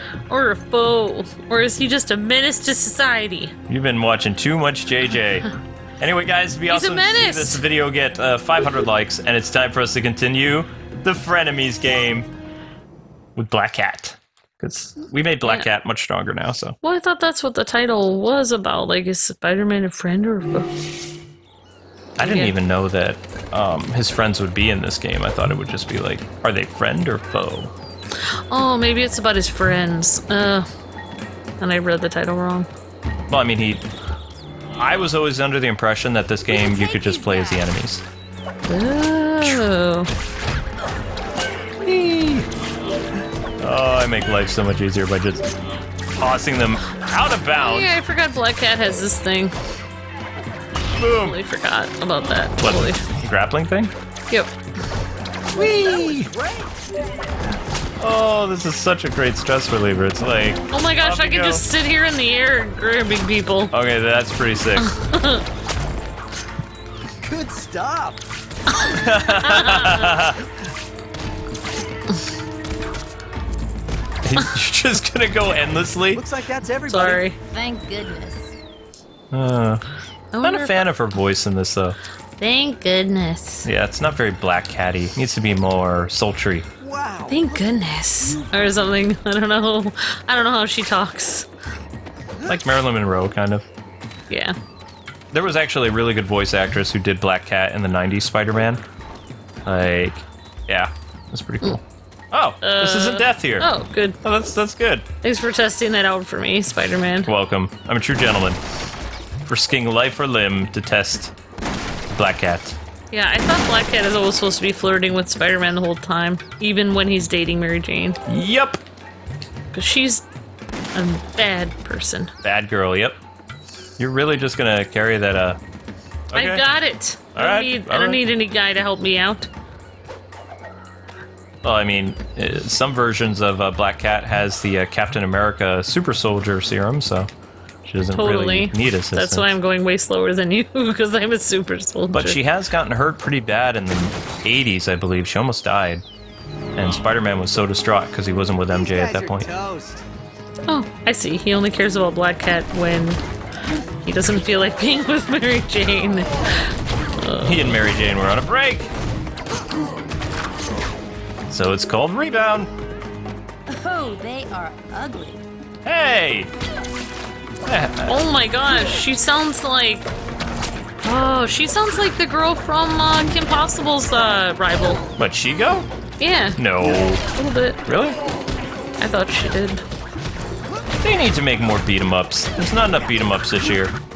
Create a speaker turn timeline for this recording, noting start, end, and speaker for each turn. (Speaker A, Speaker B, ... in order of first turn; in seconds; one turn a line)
Speaker A: 0.3-3.5
Speaker B: 3.7-5.5
Speaker B: 6.0-12.3
Speaker A: 6.7-7.6
Speaker B: 13.3-16.8
Speaker A: 15.4-15.7
Speaker A: 16.8-20.7
Speaker B: 22.2-27.7
Speaker A: 22.2-22.5
Speaker A: 28.2-30.7
Speaker A: 31.6-32.7
Speaker B: 33.3-33.8
Speaker B: 34.8-38.0
Speaker C: 36.5-37.6
Speaker A: 38.6-40.1
Speaker B: 41.8-42.5
Speaker B: 43.6-45.5
Speaker B: 46.1-48.0
Speaker A: 47.6-49.5
Speaker B: 51.0-51.4
Speaker A: 51.1-53.0
Speaker B: 52.6-53.9
Speaker B: 55.5-56.3
Speaker D: 55.6-56.8
Speaker B: 58.0-61.6
Speaker A: 60.7-63.7
Speaker B: 63.7-64.9
Speaker A: 64.8-65.4
Speaker D: 67.2-68.2
Speaker B: 68.8-70.4
Speaker A: 69.4-70.1
Speaker B: 74.2-76.2
Speaker D: 76.1-77.2
Speaker A: 76.9-77.4
Speaker C: 77.5-78.5
Speaker B: 79.3-79.8
Speaker A: 80.3-80.9
Speaker B: 80.4-82.0
Speaker A: 82.4-83.7
Speaker B: 83.6-86.7
Speaker D: 86.8-88.4
Speaker A: 87.3-91.5
Speaker B: 92.4-93.7
Speaker A: 94.3-94.5
Speaker B: 95.3-98.8
Speaker B: 99.7-101.8
Speaker B: 102.3-103.7
Speaker A: 102.6-104.2
Speaker B: 104.2-105.1
Speaker A: 105.2-107.3
Speaker B: 107.2-108.6
Speaker B: 109.5-111.3
Speaker B: 112.1-112.8
Speaker A: 113.1-118.2
Speaker B: 118.3-118.8
Speaker A: 119.7-120.2
Speaker A: 120.9-122.3
Speaker B: 122.4-123.2
Speaker B: 124.0-125.6
Speaker B: 126.3-126.6
Speaker A: 126.3-129.5
Speaker B: 127.3-128.2
Speaker B: 131.6-137.3
Speaker B: 137.8-139.5
Speaker A: 138.1-142.4
Speaker B: 142.1-146.0
Speaker B: 146.8-149.5
Speaker D: 148.7-150.0
Speaker A: 150.7-153.2
Speaker A: 154.0-156.7
Speaker A: 157.2-157.8
Speaker B: 157.4-158.9
Speaker B: 161.5-162.7
Speaker C: 163.7-165.4
Speaker B: 165.8-166.5
Speaker B: 167.6-168.2
Speaker A: 168.1-170.1
Speaker A: 171.0-175.0
Speaker B: 175.2-175.9
Speaker A: 176.2-177.8
Speaker B: 176.6-177.2
Speaker B: 177.8-178.2
Speaker A: 179.0-179.8
Speaker B: 181.0-183.9